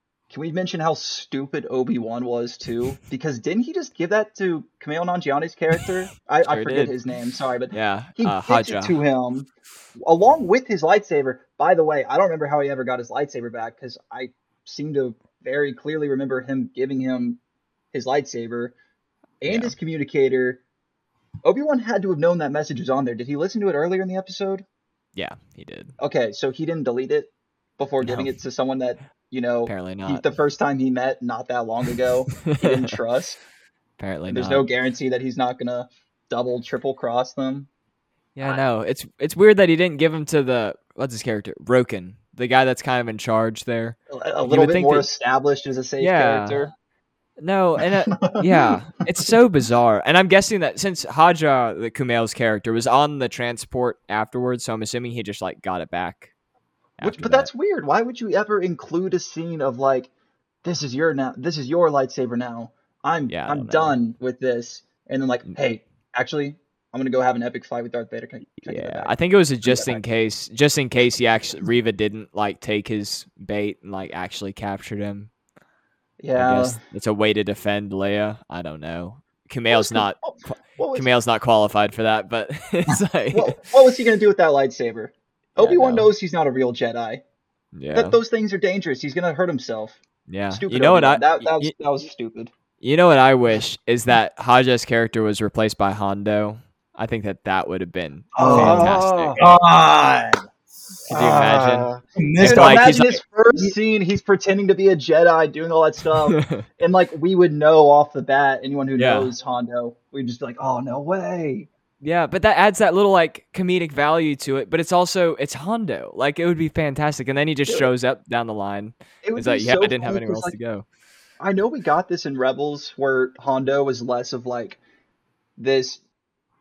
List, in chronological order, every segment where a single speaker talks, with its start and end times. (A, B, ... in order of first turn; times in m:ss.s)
0:00.3-0:17.4 A
0:06.5-0:06.9 B
0:07.7-0:09.0 B
0:17.9-0:18.8 A
0:19.4-0:20.6 A
0:19.4-0:19.8 B
0:21.4-0:24.6 A
0:25.2-0:25.9 B
0:26.0-0:33.4 A
0:28.0-0:28.3 B
0:29.7-0:30.2 B
0:32.4-0:32.9 B
0:34.0-0:34.6 B
0:34.3-0:37.7 A
0:38.4-0:45.1 B
0:44.1-0:46.7 A
0:46.0-0:46.6 B
0:47.4-0:56.3 B
0:48.1-0:48.5 A
0:57.0-0:57.5 B
0:57.0-1:00.1 A
1:00.6-1:09.2 A
1:03.3-1:04.0 B
1:08.6-1:15.3 B
1:09.7-1:10.0 A
1:16.2-1:16.8 A
1:16.4-1:23.6 B
1:19.7-1:21.1 A
1:23.3-1:27.2 A
1:25.6-1:26.1 B
1:27.7-1:28.2 B
1:27.9-1:30.0 A
1:30.3-1:31.7 B
1:30.5-1:32.5 A
1:32.8-1:39.4 B
1:38.4-1:40.5 C
1:38.4-1:39.4 A
1:41.1-1:43.2 B
1:41.1-1:51.7 A
1:42.2-1:43.7 C
1:46.3-1:46.6 B
1:49.0-1:49.3 B
1:52.0-2:00.8 B
1:59.2-2:00.6 A
2:01.4-2:04.8 A
2:05.6-2:06.0 A